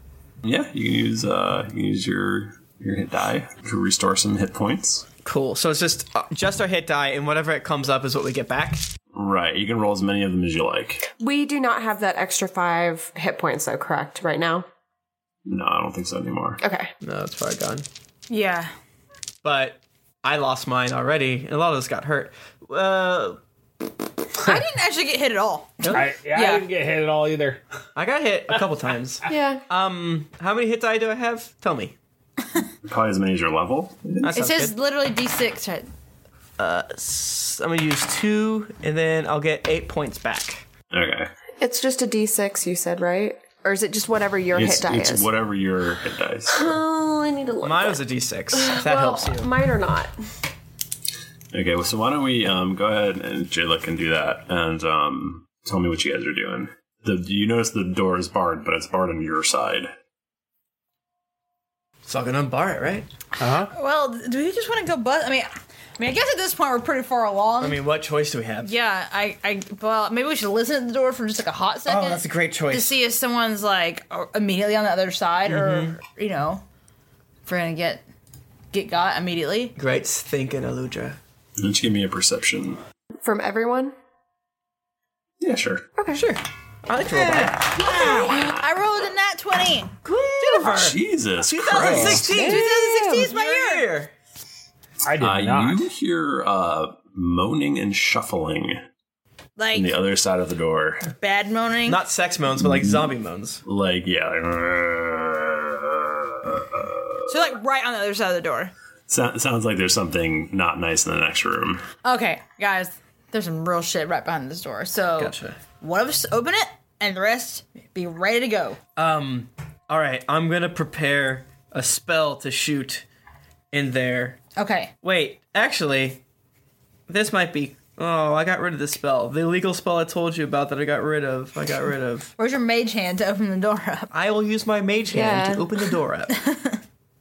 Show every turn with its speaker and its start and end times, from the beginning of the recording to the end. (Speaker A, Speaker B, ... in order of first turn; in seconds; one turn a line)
Speaker A: 0.4-5.0
Speaker B: 5.2-8.8
Speaker A: 9.1-11.0
Speaker C: 11.2-14.6
Speaker A: 15.5-16.6
Speaker C: 16.6-16.9
Speaker B: 17.0-17.9
Speaker D: 18.3-18.7
Speaker B: 19.4-23.4
Speaker D: 24.4-26.6
Speaker B: 25.8-26.0
Speaker E: 25.9-27.6
Speaker B: 27.9-31.9
Speaker C: 29.3-29.6
Speaker A: 32.8-34.3
Speaker B: 34.2-34.7
Speaker D: 34.3-35.9
Speaker B: 36.6-40.6
Speaker A: 40.9-41.3
Speaker C: 41.6-45.3
Speaker A: 44.5-46.8
Speaker C: 46.5-48.0
Speaker B: 47.6-49.5
Speaker C: 48.5-50.1
Speaker A: 51.5-59.9
Speaker B: 62.0-63.1
Speaker E: 63.4-63.7
Speaker D: 63.7-67.8
Speaker B: 67.6-68.7
Speaker D: 68.6-76.6
Speaker B: 71.8-73.0
Speaker B: 75.4-76.0
Speaker D: 77.5-78.0
Speaker D: 78.7-79.7
Speaker B: 79.8-81.2
Speaker A: 81.6-82.8
Speaker C: 83.2-83.9
Speaker A: 85.4-85.8
Speaker C: 86.0-86.2
Speaker B: 86.1-88.2
Speaker D: 87.7-90.0
Speaker B: 90.0-94.1
Speaker A: 90.6-92.2
Speaker D: 91.6-93.8
Speaker E: 91.8-92.2
Speaker C: 92.2-93.2
Speaker E: 95.0-95.9
Speaker A: 95.2-98.8
Speaker D: 99.6-100.0
Speaker A: 99.7-101.1
Speaker D: 101.2-102.0
Speaker B: 101.9-103.6
Speaker A: 102.6-103.1
Speaker A: 103.6-107.4
Speaker D: 107.3-108.7
Speaker A: 109.1-111.8
Speaker D: 112.0-118.8
Speaker B: 115.2-115.6
Speaker B: 119.0-123.0
Speaker B: 123.7-124.4
Speaker D: 124.5-124.9
Speaker B: 125.0-126.2
Speaker B: 127.1-132.3
Speaker D: 132.4-134.1
Speaker B: 134.1-136.3
Speaker C: 135.1-135.7
Speaker D: 136.3-136.8